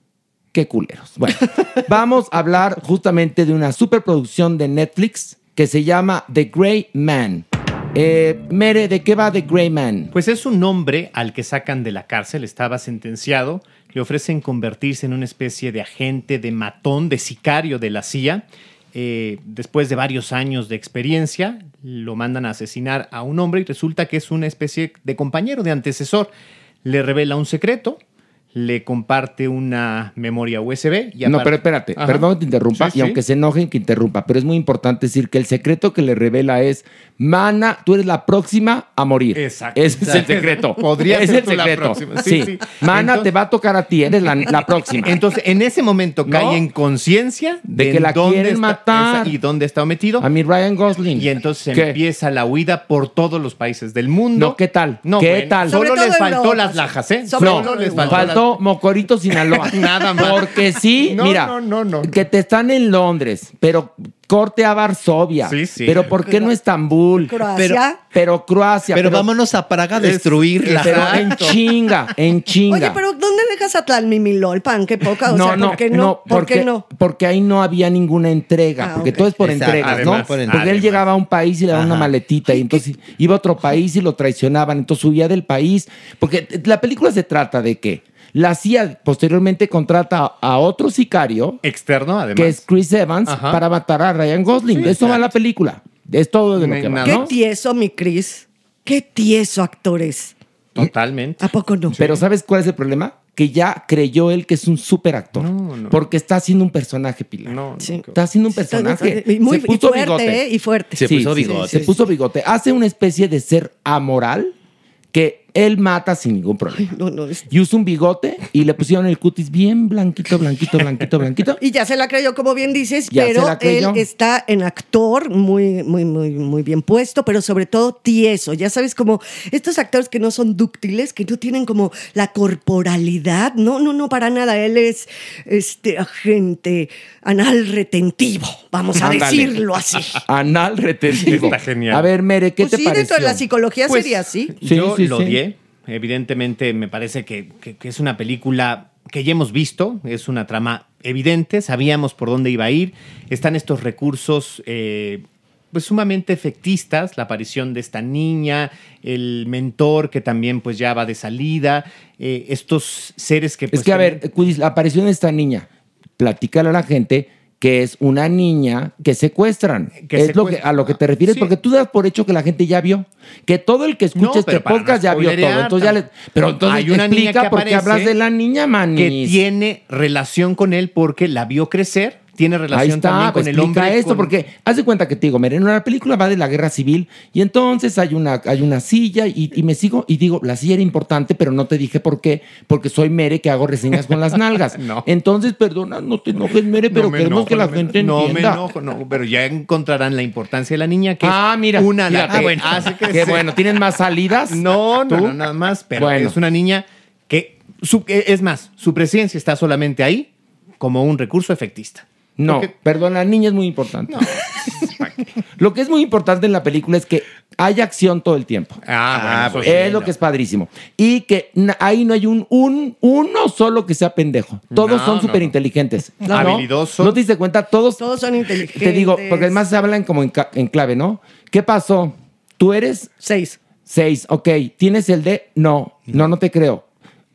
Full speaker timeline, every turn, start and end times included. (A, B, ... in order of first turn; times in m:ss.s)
0:00.5-0:10.1 A
0:10.1-0:26.3 B
0:26.8-0:28.0 B
0:28.5-0:33.2 B
0:31.2-0:45.2 A
0:39.4-0:43.3 B
0:45.0-0:50.3 B
0:46.3-0:46.6 A
0:47.7-0:49.3 A
0:50.2-0:52.0 A
0:51.1-0:58.5 B
0:54.4-0:55.8 A
0:55.7-0:58.4 C
0:57.4-1:07.4 A
0:59.5-1:02.1 B
1:05.4-1:06.1 B
1:06.2-1:06.5 C
1:07.2-1:08.0 C
1:07.6-1:07.8 D
1:08.1-1:09.3 A
1:08.9-1:11.5 D
1:10.0-1:11.6 B
1:10.0-1:13.0 A
1:12.7-1:16.8 C
1:15.2-1:31.6 A
1:18.8-1:19.3 C
1:19.4-1:21.0 D
1:19.8-1:21.0 B
1:21.7-1:22.1 D
1:22.5-1:22.8 C
1:31.6-1:32.6 B
1:32.4-1:37.3 A
1:33.3-1:33.6 B
1:34.7-1:35.2 B
1:36.6-1:37.3 B
1:37.0-1:40.3 C
1:40.8-1:42.2 B
1:41.4-1:42.0 C
1:42.0-1:50.4 A
1:45.4-1:46.0 B
1:47.5-1:48.2 B
1:47.8-1:51.8 C
1:51.0-1:52.0 D
1:51.0-1:54.5 A
1:55.1-1:56.9 A
1:56.7-1:57.5 C
1:57.5-2:01.6 A
2:01.6-2:20.2 C
2:03.1-2:04.1 A
2:19.0-2:19.6 A
2:20.2-2:23.4 A
2:21.1-2:22.1 B
2:22.6-2:24.5 C
2:23.9-2:44.2 B
2:24.6-2:25.4 A
2:43.7-2:59.4 A
2:50.0-2:51.5 B
2:54.2-2:56.0 B
2:56.6-2:58.1 B
2:59.0-3:04.3 B
3:02.7-3:18.7 A
3:14.8-3:15.1 B
3:16.9-3:23.5 B
3:21.2-3:25.4 A
3:22.3-3:23.0 D
3:24.5-3:30.3 B
3:26.0-3:26.4 A
3:30.8-3:32.7 B
3:32.4-3:34.3 A
3:34.1-3:35.2 B
3:35.6-3:38.8 A
3:38.9-3:40.1 B
3:39.1-3:40.1 D
3:39.6-3:48.0 A
3:44.7-3:45.5 B
3:46.3-3:47.2 B
3:48.0-3:49.6 C
3:48.7-3:53.1 A
3:53.2-3:53.6 C
3:53.9-3:56.8 A